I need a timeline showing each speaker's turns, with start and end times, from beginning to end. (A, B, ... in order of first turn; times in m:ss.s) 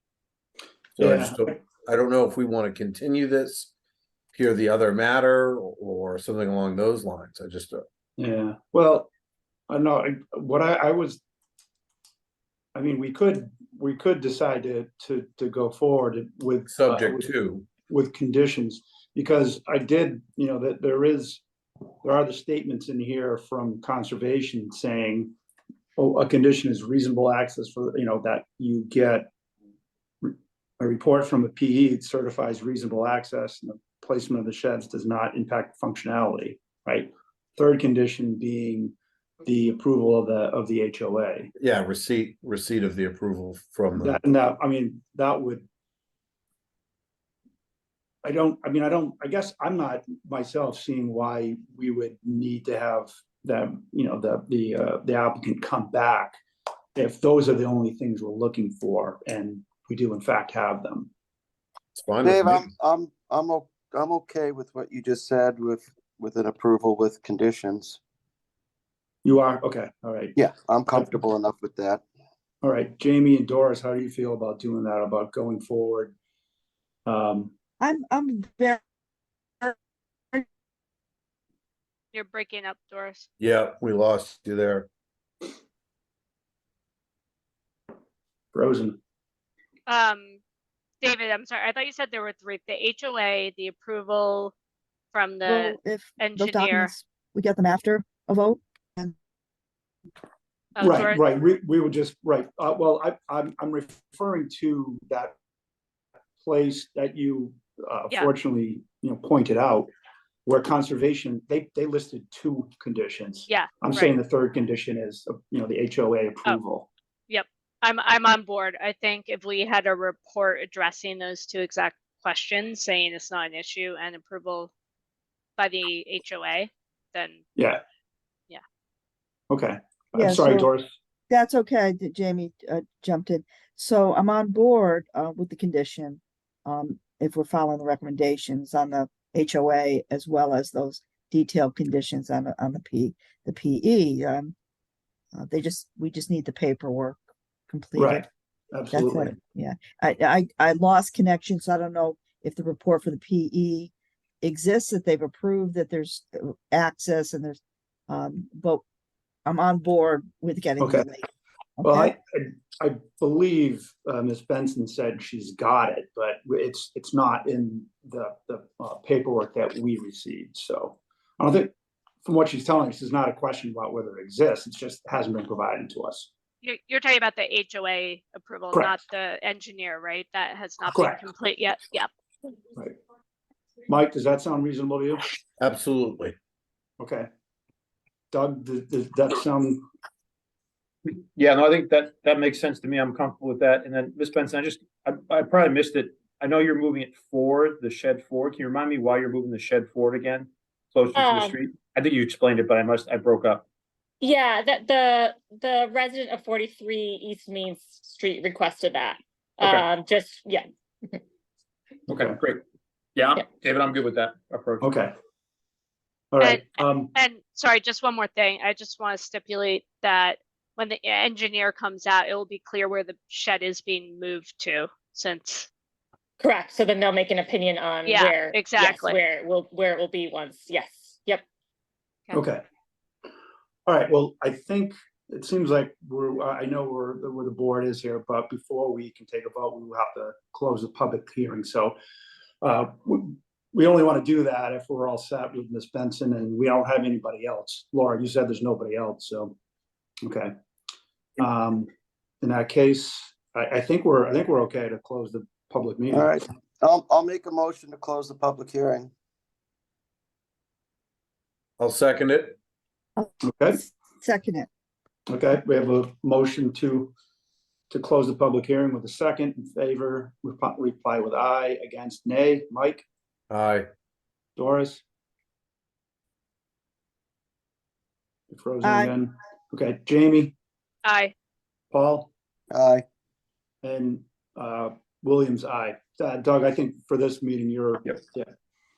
0:01.0-0:03.7 A
0:01.0-0:01.5 B
0:04.3-0:07.8 A
0:08.2-0:09.1 B
0:09.7-0:11.2 B
0:12.7-0:17.2 B
0:16.7-0:17.7 A
0:17.8-0:21.4 B
0:22.0-0:25.4 B
0:26.0-0:29.3 B
0:30.2-0:41.5 B
0:41.6-0:44.2 A
0:44.0-0:45.6 B
0:48.2-0:56.4 B
0:56.9-1:01.1 B
1:01.9-1:02.7 A
1:02.2-1:08.0 C
1:09.2-1:10.4 B
1:10.4-1:12.0 C
1:10.9-1:11.2 B
1:12.6-1:16.1 B
1:17.0-1:17.5 B
1:17.8-1:18.8 D
1:22.1-1:23.3 E
1:23.4-1:24.9 A
1:28.5-1:29.0 B
1:29.9-1:30.4 E
1:31.0-1:34.5 E
1:35.1-1:36.9 E
1:35.4-1:39.1 D
1:40.8-1:41.2 E
1:40.8-1:45.4 B
1:46.4-1:49.9 B
1:50.4-1:56.9 B
1:53.5-1:54.1 E
1:57.3-2:04.7 E
2:05.6-2:07.4 E
2:07.6-2:07.8 B
2:09.5-2:10.9 B
2:10.2-2:10.7 D
2:11.3-2:24.5 D
2:25.3-2:27.2 D
2:27.7-2:28.2 D
2:28.0-2:29.3 B
2:28.9-2:38.8 D
2:39.4-2:41.3 D
2:40.8-2:41.1 B
2:41.8-2:42.1 D
2:41.8-2:56.3 B
2:56.6-3:02.1 E
2:58.7-2:59.0 B
3:00.9-3:01.2 B
3:03.9-3:05.2 B
3:05.6-3:06.3 A
3:07.0-3:07.3 B
3:08.3-3:09.8 B
3:11.4-3:23.6 F
3:21.1-3:21.6 G
3:24.2-3:31.2 G
3:32.1-3:32.6 F
3:32.1-3:32.4 B
3:33.2-3:34.9 F
3:34.8-3:35.1 B
3:36.3-3:37.1 B
3:36.4-3:45.7 E
3:46.4-3:51.4 G
3:48.1-3:49.2 E
3:52.3-3:52.6 B
3:53.8-4:02.0 B
4:02.6-4:09.6 B
4:10.2-4:10.5 B
4:11.4-4:11.9 B
4:12.4-4:16.4 B
4:16.1-4:19.1 C
4:21.8-4:22.6 A
4:23.2-4:24.7 D
4:23.4-4:23.8 B
4:25.3-4:27.1 B
4:27.9-4:33.0 B
4:33.5-4:33.9 A
4:34.6-4:35.0 B
4:38.5-4:40.6 B
4:38.8-4:39.1 D
4:41.0-4:41.3 E
4:41.9-4:42.3 B
4:42.7-4:43.0 C
4:43.8-4:48.5 B